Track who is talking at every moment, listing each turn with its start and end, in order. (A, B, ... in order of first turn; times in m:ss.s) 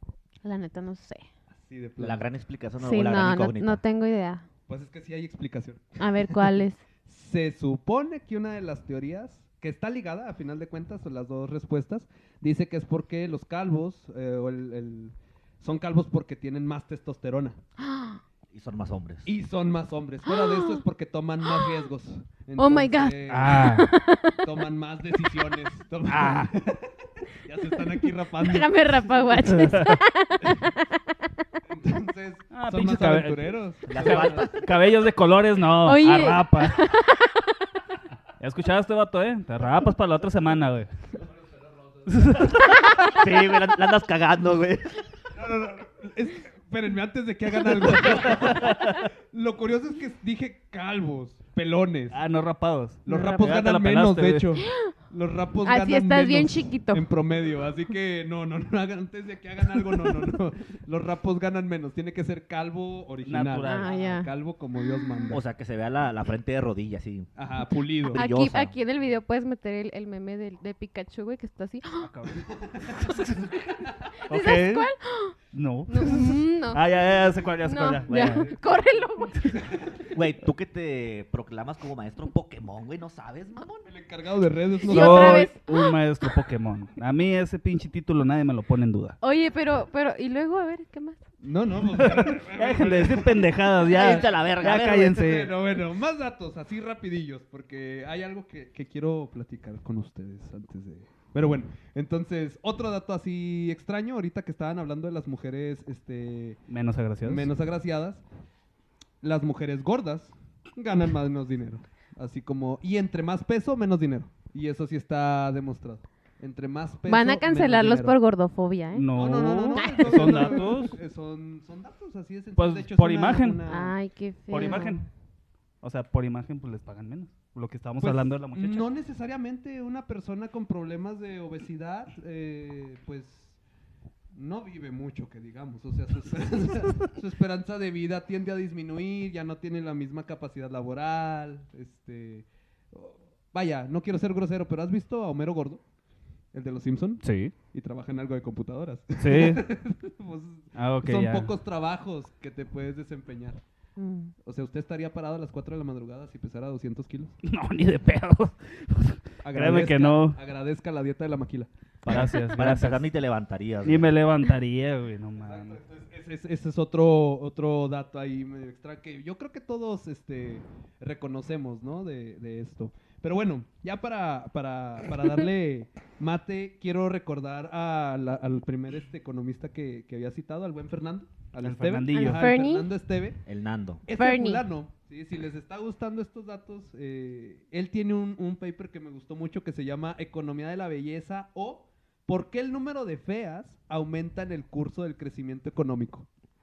0:00.4-0:01.2 A
0:01.5-0:02.3 B
0:02.0-0:03.8 C
0:02.8-0:04.5 A
0:04.7-0:06.5 B
0:06.0-0:06.8 A
0:07.0-0:17.6 B
0:17.8-0:18.2 A
0:18.5-0:19.3 C
0:19.2-0:23.7 B
0:20.3-0:20.8 A
0:21.5-0:21.8 A
0:22.6-0:24.5 A
0:23.3-0:23.9 D
0:24.4-0:26.9 B
0:26.1-0:26.5 D
0:27.4-0:29.3 B
0:28.4-0:31.4 A
0:29.6-0:30.0 D
0:31.7-0:34.6 B
0:32.5-0:36.8 D
0:33.9-0:34.6 C
0:35.8-0:37.6 A
0:38.4-0:40.9 D
0:42.1-0:42.8 D
0:42.8-0:43.1 A
0:43.0-0:45.0 C
0:45.4-0:52.2 B
0:48.2-0:49.0 D
0:52.1-0:54.5 D
0:53.1-1:05.4 B
0:54.6-0:54.9 A
0:55.6-0:57.1 A
1:03.2-1:03.9 D
1:03.6-1:04.3 A
1:04.8-1:05.3 A
1:05.3-1:07.3 C
1:07.4-1:08.2 B
1:08.1-1:08.7 C
1:08.1-1:12.1 A
1:12.0-1:13.6 D
1:12.6-1:12.9 B
1:14.2-1:15.4 A
1:14.3-1:14.8 D
1:14.3-1:14.6 C
1:15.5-1:18.6 D
1:15.9-1:16.8 A
1:16.9-1:17.4 C
1:17.6-1:19.6 A
1:18.1-1:18.4 C
1:18.4-1:18.8 B
1:19.4-1:20.1 B
1:20.1-1:23.9 C
1:23.8-1:25.5 B
1:24.8-1:26.0 A
1:24.9-1:29.2 D
1:29.2-1:31.2 A
1:31.4-1:34.3 B
1:31.9-1:35.6 D
1:33.9-1:35.2 C
1:35.0-1:46.6 B
1:46.7-1:47.5 D
1:47.2-1:48.2 B
1:49.2-1:58.2 B
1:57.1-1:59.1 A
1:58.9-2:01.0 D
1:59.1-2:04.0 B
1:59.7-2:00.7 A
2:02.6-2:03.6 D
2:03.7-2:05.0 A
2:04.5-2:05.1 D
2:04.6-2:04.9 B
2:05.8-2:08.9 D
2:08.0-2:13.6 B
2:14.3-2:25.8 B
2:26.5-2:33.6 B
2:27.2-2:27.5 D
2:29.2-2:29.6 D
2:30.8-2:31.5 D
2:34.0-2:34.3 A
2:34.4-2:37.4 B
2:37.4-2:40.4 D
2:39.4-2:42.3 B
2:42.1-2:43.1 D
2:42.1-2:44.2 C
2:43.8-2:45.8 D
2:45.4-3:03.4 B
3:01.6-3:02.5 D
3:02.1-3:02.9 A
3:03.5-3:04.0 C
3:04.0-3:16.3 B
3:04.1-3:04.6 A